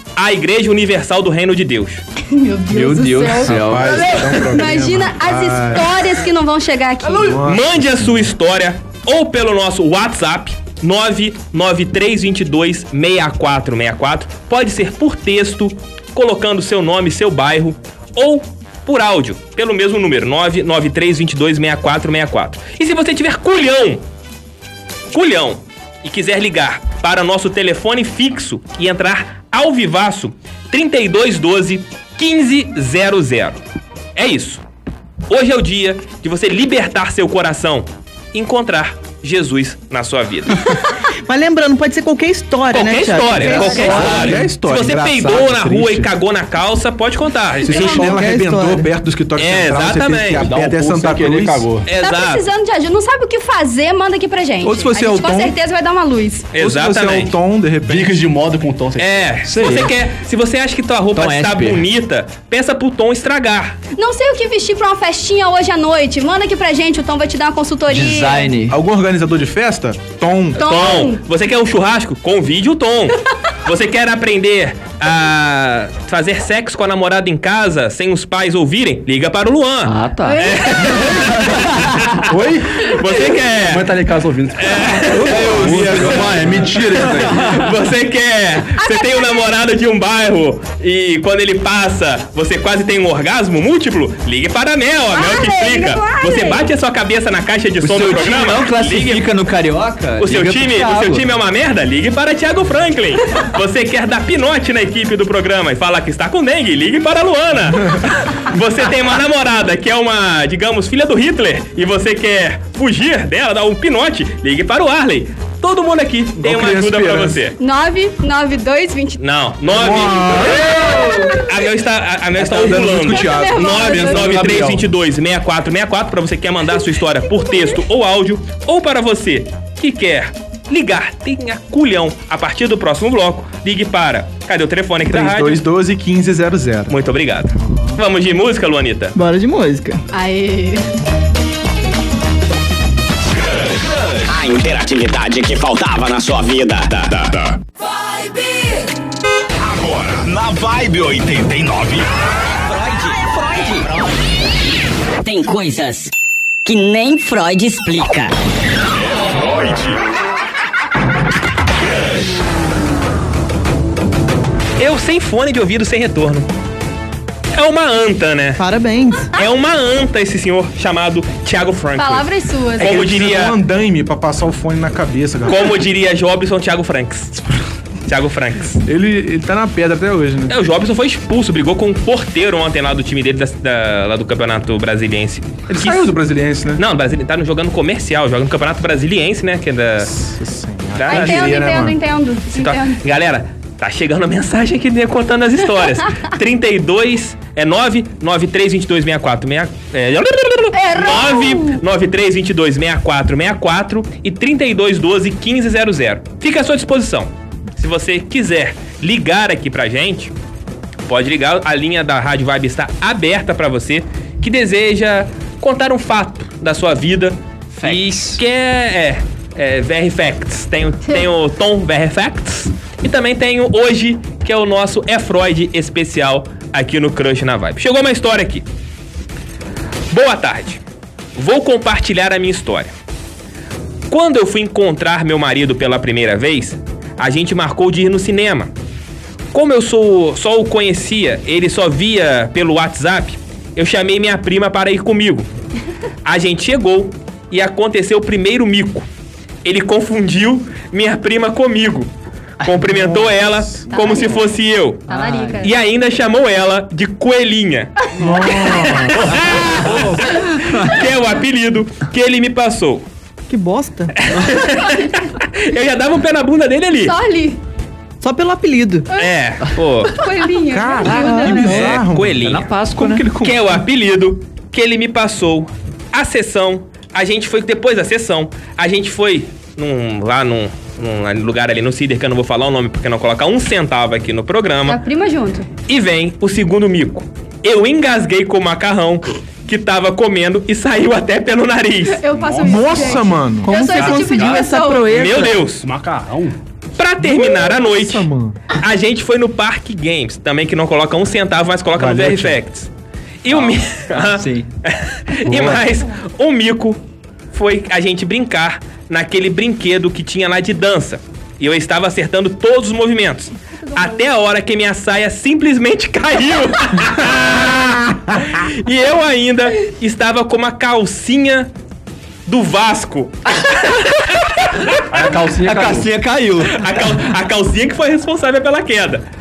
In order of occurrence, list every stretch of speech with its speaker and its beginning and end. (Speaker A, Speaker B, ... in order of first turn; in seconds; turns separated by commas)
Speaker A: 0.2-2.0, Speaker B: 2.3-7.4, Speaker C: 2.7-4.1, Speaker D: 3.5-5.9, Speaker D: 7.1-8.0, Speaker A: 7.4-24.0, Speaker A: 25.1-33.6, Speaker A: 34.2-34.6, Speaker A: 35.3-40.7, Speaker E: 41.3-44.4, Speaker A: 42.7-48.0, Speaker D: 43.3-46.1, Speaker F: 43.8-44.3, Speaker F: 47.5-48.0, Speaker D: 47.6-51.7, Speaker E: 47.8-48.9, Speaker A: 49.4-50.5, Speaker F: 50.4-51.9, Speaker A: 51.9-52.5, Speaker B: 52.0-56.5, Speaker D: 54.6-55.6, Speaker A: 56.5-57.4, Speaker D: 56.6-58.2, Speaker F: 57.9-59.3, Speaker A: 59.0-63.8, Speaker C: 59.5-59.9, Speaker C: 61.1-61.9, Speaker B: 64.0-68.5, Speaker C: 67.9-68.8, Speaker D: 68.7-70.7, Speaker B: 70.6-71.2, Speaker A: 70.6-83.9, Speaker C: 79.8-80.5, Speaker B: 80.2-81.1, Speaker F: 82.3-82.9, Speaker F: 83.5-87.5, Speaker A: 84.6-86.2, Speaker D: 85.1-86.6, Speaker C: 85.3-86.2, Speaker A: 87.3-99.3, Speaker B: 88.8-89.5, Speaker B: 95.1-96.7, Speaker C: 97.8-101.3, Speaker A: 100.2-117.5, Speaker D: 116.4-117.4, Speaker B: 117.6-119.2, Speaker A: 119.2-135.6, Speaker D: 119.7-121.4, Speaker B: 120.9-121.3, Speaker D: 122.4-123.8, Speaker B: 123.0-124.2, Speaker F: 123.6-124.9, Speaker D: 135.1-136.9, Speaker A: 136.9-139.2, Speaker E: 139.2-140.0, Speaker B: 140.1-140.8, Speaker G: 143.4-147.6, Speaker G: 149.6-152.1, Speaker H: 152.7-153.9, Speaker H: 155.2-156.1, Speaker H: 156.7-158.3, Speaker G: 159.2-160.0, Speaker A: 164.8-166.5, Speaker A: 167.5-168.6, Speaker E: 168.6-169.3, Speaker A: 169.3-173.6, Speaker B: 172.0-173.0, Speaker D: 172.8-175.7, Speaker A: 175.5-177.4, Speaker A: 178.1-178.8, Speaker D: 178.9-180.6, Speaker A: 180.5-186.1, Speaker D: 185.7-186.8, Speaker A: 186.8-190.2, Speaker D: 190.1-192.0, Speaker A: 191.0-191.6, Speaker B: 191.1-193.0, Speaker A: 192.5-210.3, Speaker B: 200.7-201.8, Speaker A: 211.1-228.7, Speaker C: 217.8-218.4, Speaker A: 230.1-230.8, Speaker A: 231.4-232.9, Speaker A: 234.1-238.7, Speaker A: 239.5-245.5, Speaker A: 246.2-249.1, Speaker A: 249.6-252.1, Speaker A: 252.6-255.1, Speaker D: 252.8-254.1, Speaker B: 253.9-254.5, Speaker C: 255.1-255.7, Speaker B: 255.1-255.7, Speaker A: 255.6-263.1, Speaker D: 258.2-259.3, Speaker E: 263.5-264.1, Speaker A: 264.2-267.1, Speaker B: 264.8-265.1, Speaker B: 267.0-267.6, Speaker E: 268.2-269.1, Speaker B: 269.1-269.4, Speaker A: 269.2-270.1, Speaker B: 270.1-271.8, Speaker D: 270.7-273.8, Speaker E: 271.1-272.0, Speaker A: 271.7-272.7, Speaker C: 272.4-273.3, Speaker A: 273.4-285.0, Speaker B: 284.9-285.7, Speaker A: 285.9-292.2, Speaker B: 292.1-295.1, Speaker F: 292.3-293.3, Speaker D: 292.6-293.8, Speaker E: 293.6-295.7, Speaker F: 293.9-294.7, Speaker A: 295.1-295.9, Speaker F: 295.8-296.6, Speaker A: 297.0-302.9, Speaker D: 297.2-298.6, Speaker D: 302.0-302.6, Speaker A: 303.4-307.0, Speaker C: 304.1-304.7, Speaker D: 305.5-305.9, Speaker A: 307.5-321.7, Speaker B: 313.8-314.3, Speaker A: 322.5-325.0, Speaker F: 325.1-326.1, Speaker C: 325.6-327.2, Speaker A: 326.7-329.2